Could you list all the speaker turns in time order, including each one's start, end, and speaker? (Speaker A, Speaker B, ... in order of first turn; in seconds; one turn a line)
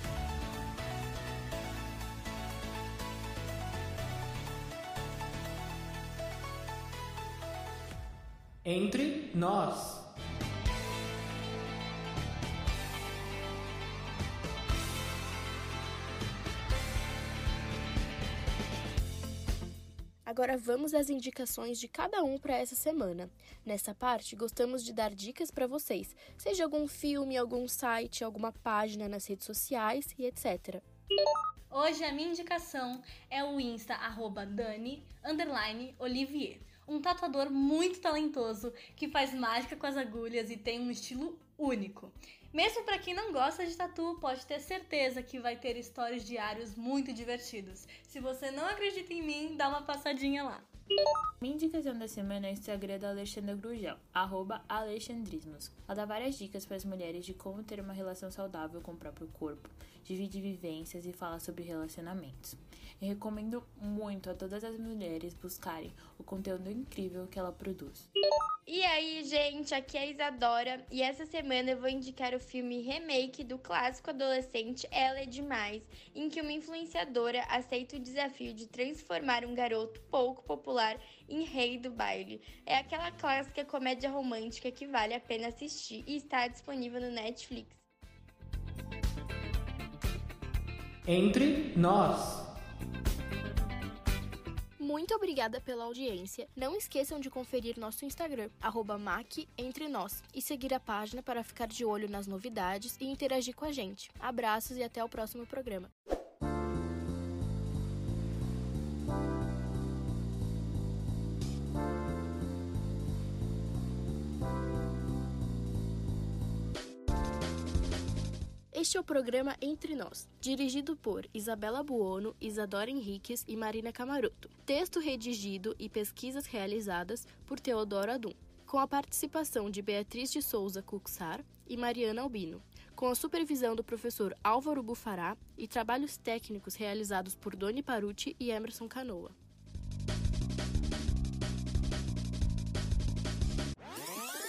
Speaker A: 8.6-10.0
Speaker B: 20.2-30.8
Speaker C: 31.7-50.7
Speaker D: 51.4-68.1
Speaker E: 68.7-87.8
Speaker A: 91.1-92.4
Speaker B: 94.8-105.9
Speaker B: 118.7-139.3